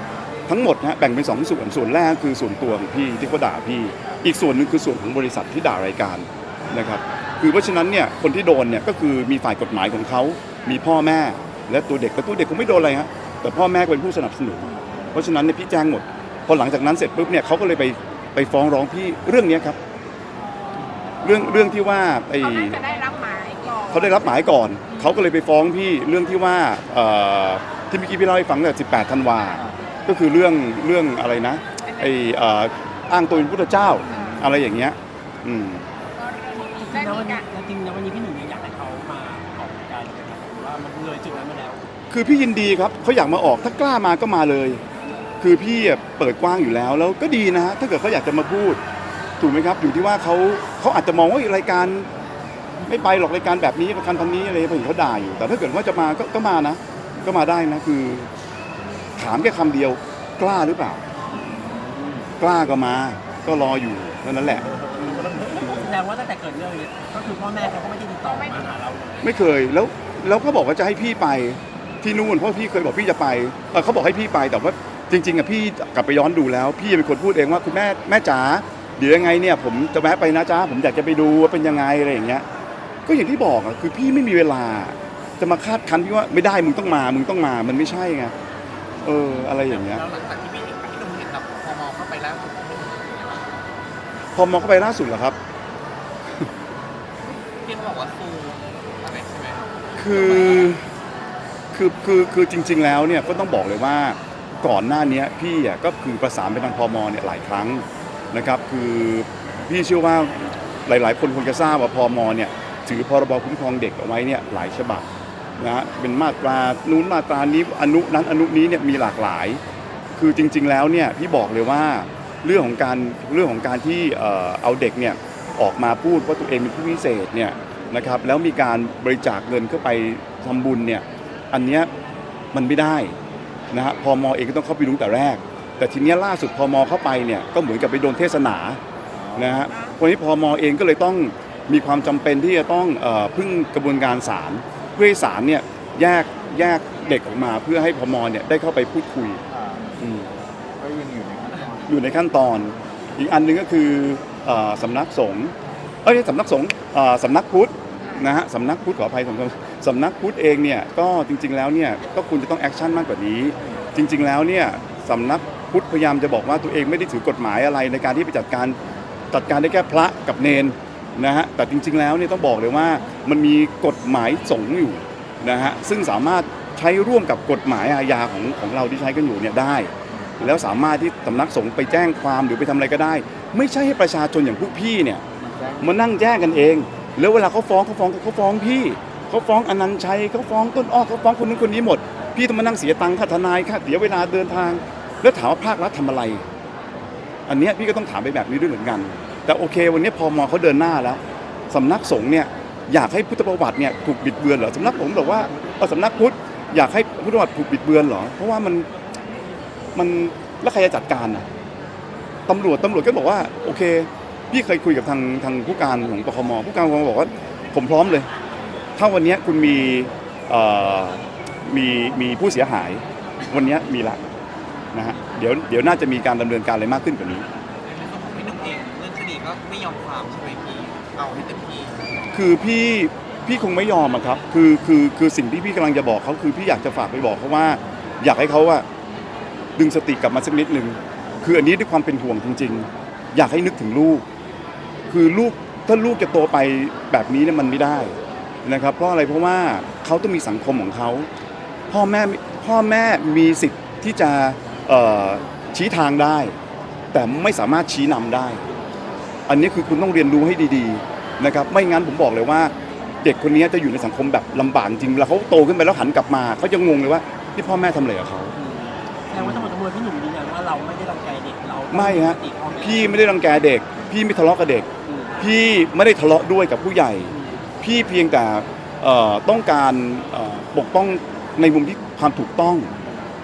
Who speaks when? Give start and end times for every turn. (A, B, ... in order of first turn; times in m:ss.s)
0:00.5-0:19.8 A
0:21.2-0:22.8 A
0:22.4-0:25.2 B
0:23.9-0:35.9 A
0:31.9-0:32.2 B
0:34.1-0:34.5 C
0:36.2-0:37.4 B
0:36.5-0:41.8 D
0:42.1-0:44.8 A
0:45.4-0:48.8 A
0:49.4-0:52.1 A
0:52.8-0:58.3 A
0:59.2-1:01.0 A
1:01.6-1:02.2 D
1:02.4-1:04.7 A
1:04.8-1:09.3 D
1:08.3-1:08.6 B
1:09.2-1:22.4 A
1:23.0-1:28.3 A
1:29.0-1:30.0 A
1:29.4-1:33.6 E
1:34.3-1:35.4 A
1:37.6-1:40.7 E
1:40.0-1:40.8 A
1:41.7-1:55.0 A
1:55.6-1:59.6 A
2:00.2-2:11.9 A
2:12.5-2:13.2 A
2:13.7-2:18.8 A
2:19.1-2:19.6 C
2:19.4-2:29.4 A
2:29.5-2:29.9 C
2:30.0-2:30.3 A
2:30.8-2:32.0 C
2:31.9-2:35.5 A
2:36.0-2:48.8 A
2:49.3-3:05.2 A
3:05.4-3:05.9 C
3:05.8-3:16.4 A
3:17.5-3:28.9 A
3:29.9-3:31.5 A
3:32.5-3:38.3 A
3:39.0-3:44.2 A
3:44.9-3:47.4 A
3:47.8-3:51.9 E
3:52.3-3:58.8 A
3:59.8-4:04.2 A
4:05.1-4:11.3 A
4:11.9-4:16.6 A
4:17.1-4:18.6 A
4:19.5-4:28.5 A
4:28.6-4:33.2 D
4:29.3-4:29.7 A
4:31.9-4:42.9 A
4:35.0-4:35.4 D
4:37.3-4:37.6 D